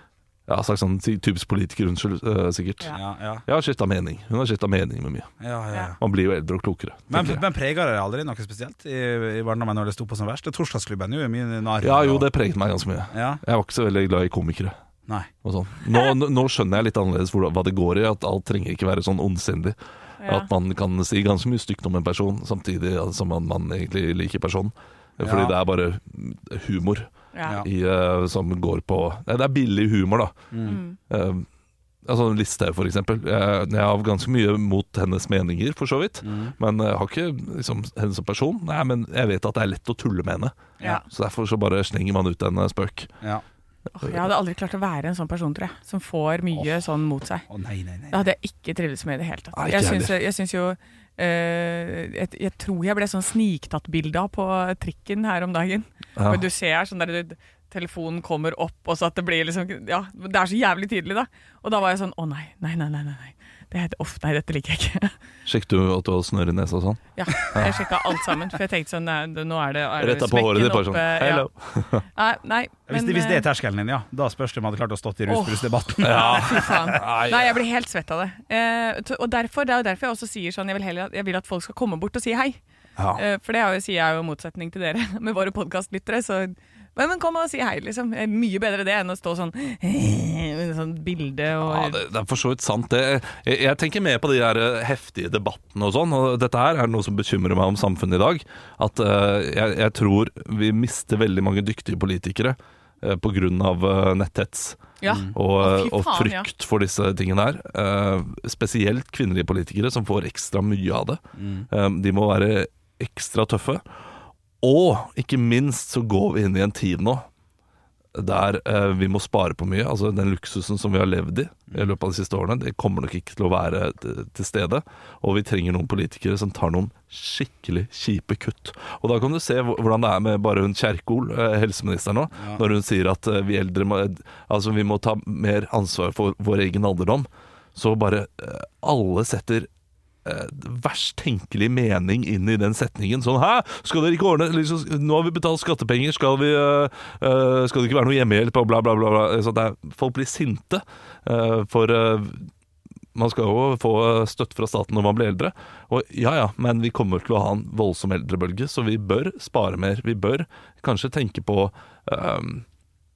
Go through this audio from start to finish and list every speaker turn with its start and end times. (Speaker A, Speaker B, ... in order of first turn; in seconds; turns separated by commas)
Speaker A: 0.5-2.9, Speaker B: 2.9-3.4, Speaker A: 3.5-5.3, Speaker B: 5.4-6.0, Speaker A: 6.0-7.4, Speaker B: 7.1-12.3, Speaker A: 11.8-14.8, Speaker B: 13.1-13.4, Speaker A: 15.4-27.1, Speaker C: 20.2-20.5, Speaker B: 25.2-25.6, Speaker C: 27.3-27.6, Speaker A: 27.6-30.5, Speaker B: 30.5-30.8, Speaker C: 30.7-31.0, Speaker A: 31.1-31.5, Speaker A: 32.0-43.1, Speaker B: 36.2-36.5, Speaker C: 44.0-47.5, Speaker B: 47.5-48.2, Speaker C: 48.1-65.1, Speaker A: 49.5-50.1, Speaker A: 56.2-56.4, Speaker A: 65.5-68.0, Speaker C: 67.2-71.5, Speaker A: 70.0-72.0, Speaker C: 72.1-73.5, Speaker B: 72.9-76.9, Speaker C: 75.3-82.6, Speaker A: 76.0-77.6, Speaker A: 83.0-83.2, Speaker C: 83.1-92.0, Speaker A: 91.6-104.8, Speaker C: 105.0-106.5, Speaker A: 105.3-113.8, Speaker B: 111.4-111.7, Speaker A: 114.6-117.3, Speaker A: 118.2-139.7, Speaker A: 140.2-152.5, Speaker A: 153.2-162.7